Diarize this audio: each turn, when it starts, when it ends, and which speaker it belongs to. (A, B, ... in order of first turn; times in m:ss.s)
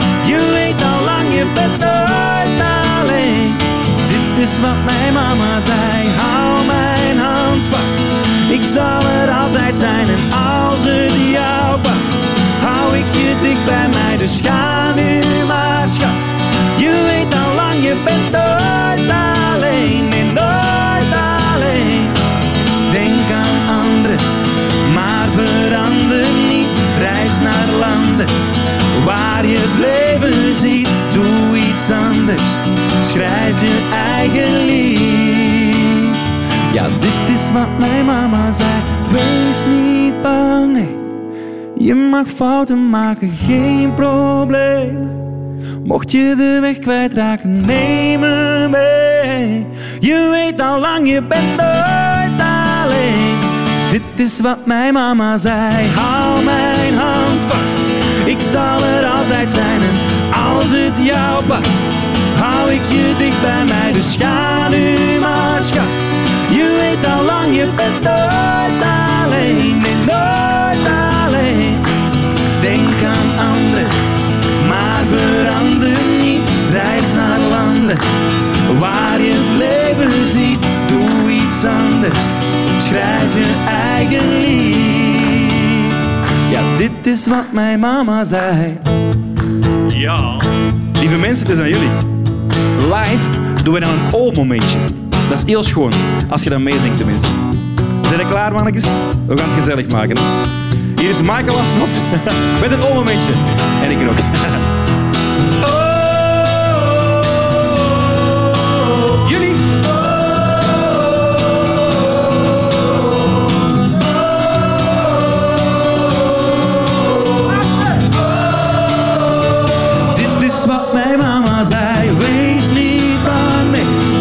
0:00.2-0:16.2 A
0:16.8-0:22.2 A
0:22.9-0:24.3 A
0:24.8-0:28.3 A
0:28.9-0:36.2 A
0:36.7-0:41.0 A
0:41.8-0:45.2 A
0:45.8-1:05.9 A
1:06.5-1:11.9 A
1:12.6-1:14.0 A
1:14.6-1:18.0 A
1:18.7-1:25.9 A
1:26.5-1:28.9 A
1:29.9-1:32.1 A
1:32.8-1:37.4 A
1:38.0-1:40.4 A
1:41.0-1:44.6 A
1:45.6-1:47.2 A
1:49.1-1:50.2 A
1:57.5-1:57.9 A
2:00.1-2:04.1 A